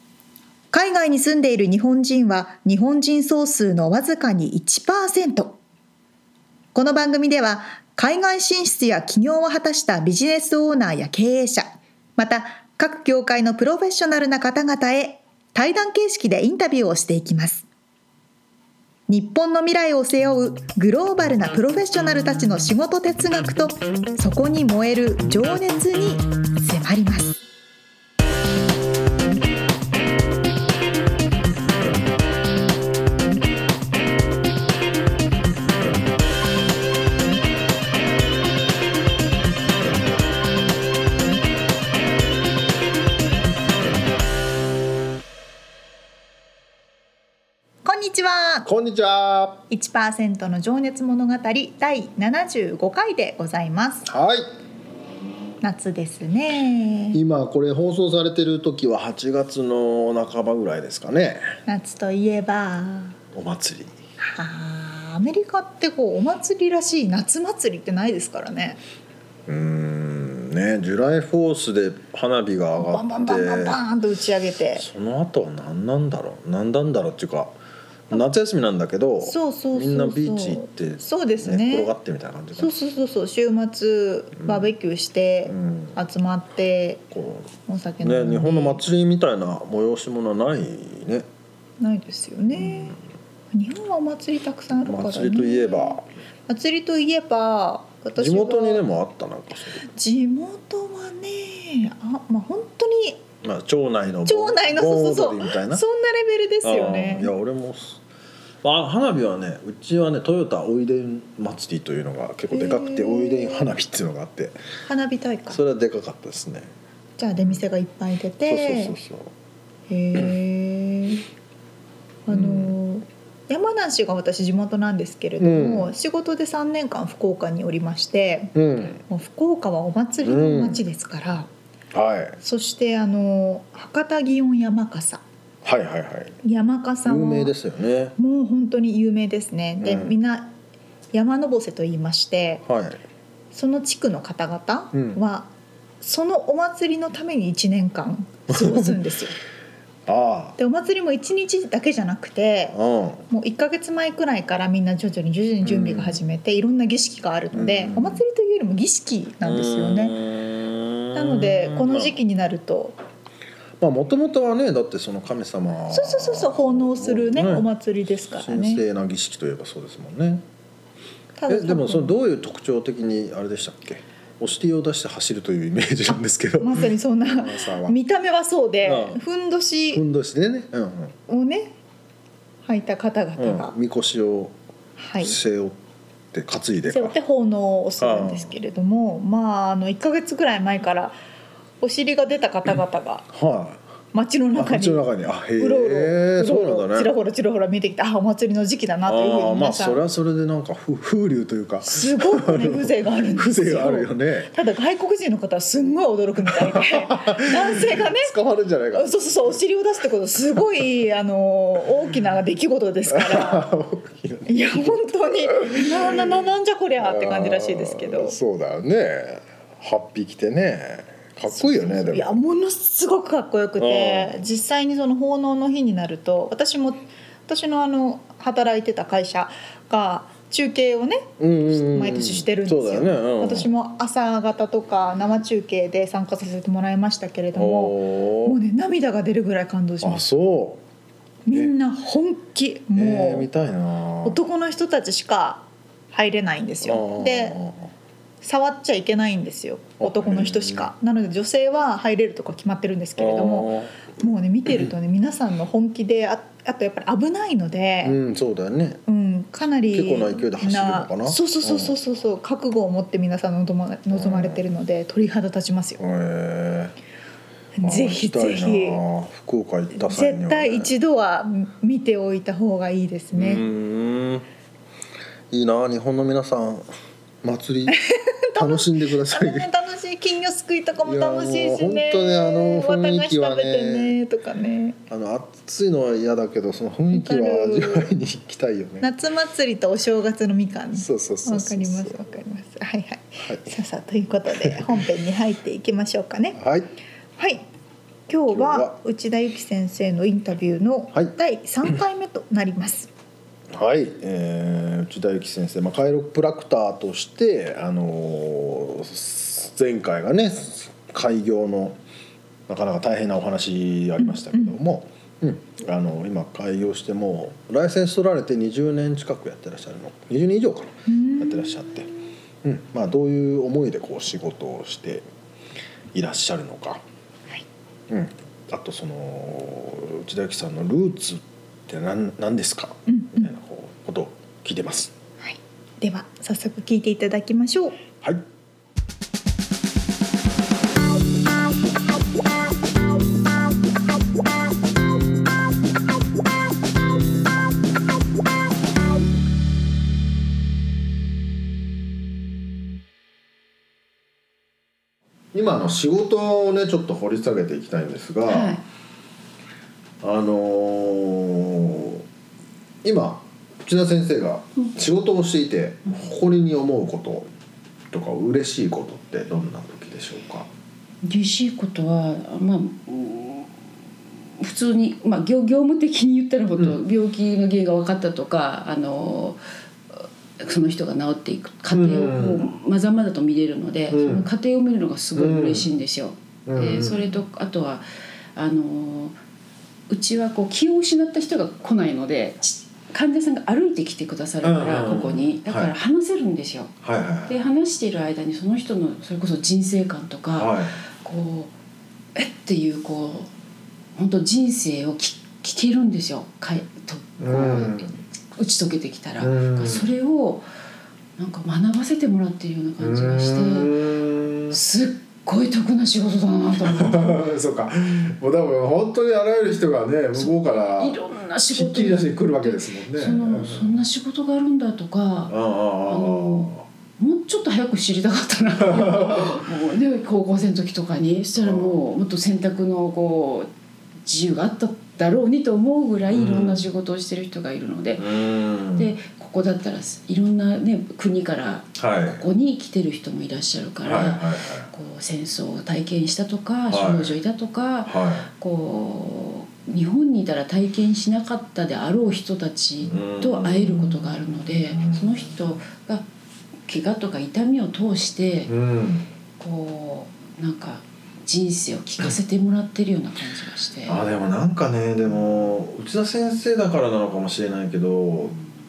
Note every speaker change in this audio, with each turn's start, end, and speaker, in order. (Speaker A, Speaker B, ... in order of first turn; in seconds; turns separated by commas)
Speaker A: 0.7-5.6, Speaker A: 6.7-17.6, Speaker A: 19.1-27.4, Speaker A: 47.8-48.7, Speaker B: 48.6-49.6, Speaker A: 49.7-54.0, Speaker B: 54.0-54.5, Speaker A: 55.6-57.2, Speaker B: 57.1-61.5, Speaker A: 61.6-63.2, Speaker B: 63.3-63.9, Speaker A: 64.2-68.8, Speaker B: 69.5-73.8, Speaker A: 72.8-74.8, Speaker B: 74.7-77.5, Speaker B: 78.1-82.8, Speaker A: 79.2-81.9, Speaker A: 82.5-87.1, Speaker B: 84.4-84.7, Speaker B: 85.5-86.0, Speaker B: 87.1-87.5, Speaker A: 87.7-88.8, Speaker B: 88.0-91.2, Speaker A: 91.8-93.0, Speaker B: 92.5-92.9, Speaker A: 93.5-98.8, Speaker B: 94.8-96.0, Speaker B: 98.2-99.8, Speaker A: 99.9-103.2, Speaker B: 103.4-105.8, Speaker A: 104.2-107.3, Speaker B: 106.6-108.0, Speaker B: 108.6-114.6, Speaker A: 112.5-113.7, Speaker A: 114.9-115.6, Speaker B: 115.5-116.7, Speaker A: 117.2-119.0, Speaker B: 118.4-119.3, Speaker A: 119.9-121.2, Speaker A: 122.3-131.5, Speaker B: 122.3-122.7, Speaker B: 125.4-125.9, Speaker B: 128.5-129.0, Speaker B: 130.2-130.8, Speaker B: 131.9-132.4, Speaker A: 132.4-135.2, Speaker B: 135.6-136.4, Speaker A: 136.4-137.5, Speaker B: 137.1-138.1, Speaker A: 138.2-140.5, Speaker B: 139.8-140.1, Speaker A: 141.1-142.6, Speaker B: 142.7-143.0, Speaker A: 143.5-149.3, Speaker B: 144.9-145.2, Speaker B: 148.5-149.0, Speaker B: 150.1-150.6, Speaker A: 150.6-152.8, Speaker B: 152.7-153.2, Speaker A: 153.3-160.2, Speaker B: 155.6-156.2, Speaker B: 157.5-158.2, Speaker B: 159.4-162.2, Speaker A: 161.1-163.0, Speaker B: 163.8-167.7, Speaker A: 165.9-168.8, Speaker B: 168.2-170.4, Speaker A: 171.4-172.1, Speaker B: 171.5-177.9, Speaker A: 176.6-180.0, Speaker B: 178.8-179.2, Speaker B: 179.9-181.1, Speaker A: 181.3-181.7, Speaker A: 182.7-183.7, Speaker B: 183.4-184.6, Speaker A: 185.0-185.4, Speaker B: 185.2-185.8, Speaker B: 186.3-187.2, Speaker A: 186.9-191.2, Speaker B: 188.0-188.6, Speaker A: 191.8-193.3, Speaker B: 193.3-193.8, Speaker A: 194.1-200.0, Speaker B: 194.5-197.1, Speaker B: 199.1-204.5, Speaker A: 201.8-208.3, Speaker B: 206.5-209.6, Speaker A: 208.9-213.7, Speaker B: 213.1-216.4, Speaker A: 214.4-218.4, Speaker B: 217.0-222.3, Speaker A: 221.4-240.2, Speaker B: 223.8-224.4, Speaker B: 231.4-233.7, Speaker B: 237.5-238.6, Speaker B: 240.0-240.8, Speaker A: 241.4-243.5, Speaker B: 242.9-244.4, Speaker A: 244.2-247.6, Speaker B: 246.8-247.9, Speaker A: 248.4-258.2, Speaker B: 250.0-250.9, Speaker B: 253.2-253.9, Speaker B: 258.0-259.0, Speaker A: 259.1-266.0, Speaker B: 259.9-261.9, Speaker B: 264.1-264.6, Speaker B: 266.0-266.9, Speaker A: 267.8-269.0, Speaker B: 267.8-270.9, Speaker A: 269.9-273.6, Speaker B: 273.3-274.5, Speaker B: 275.5-276.9, Speaker B: 277.4-278.0, Speaker A: 278.1-285.0, Speaker B: 278.6-279.7, Speaker B: 281.0-284.1, Speaker B: 285.1-289.1, Speaker A: 287.1-288.1, Speaker A: 289.0-296.6, Speaker B: 290.9-292.2, Speaker B: 293.4-293.7, Speaker B: 294.6-295.0, Speaker B: 296.5-296.9, Speaker A: 297.4-297.6, Speaker A: 298.3-303.1, Speaker B: 298.5-298.9, Speaker B: 303.7-312.0, Speaker B: 312.7-322.1, Speaker A: 321.1-321.7, Speaker B: 322.6-325.2, Speaker B: 326.1-327.0, Speaker B: 328.1-335.1, Speaker A: 333.1-333.5, Speaker A: 335.4-338.0, Speaker B: 355.5-358.8, Speaker C: 358.5-358.8, Speaker B: 360.2-362.2, Speaker B: 363.0-367.5, Speaker B: 368.1-370.7, Speaker C: 371.2-373.7, Speaker C: 374.6-379.6, Speaker C: 380.1-389.4, Speaker B: 381.9-382.7, Speaker B: 384.1-384.5, Speaker B: 385.4-385.9, Speaker B: 386.6-387.4, Speaker C: 390.1-396.9, Speaker B: 394.6-395.9, Speaker B: 397.0-397.5, Speaker C: 397.5-401.7, Speaker B: 400.6-400.9, Speaker C: 402.3-403.5, Speaker C: 404.1-410.6, Speaker B: 407.4-408.1, Speaker B: 409.4-410.1, Speaker C: 411.4-414.0, Speaker B: 413.0-414.8, Speaker C: 414.7-417.4, Speaker B: 416.8-421.2, Speaker C: 420.3-433.7, Speaker B: 421.7-424.0, Speaker B: 425.5-426.8, Speaker B: 428.8-429.6, Speaker B: 431.6-432.0, Speaker C: 434.2-438.4, Speaker B: 436.3-436.8, Speaker B: 438.2-439.1, Speaker C: 438.9-456.2, Speaker B: 441.9-442.4, Speaker B: 444.0-444.9, Speaker B: 446.9-447.4, Speaker B: 448.1-448.5, Speaker B: 453.0-455.8, Speaker C: 456.9-458.7, Speaker B: 458.7-459.3, Speaker C: 459.6-464.2, Speaker B: 464.1-468.6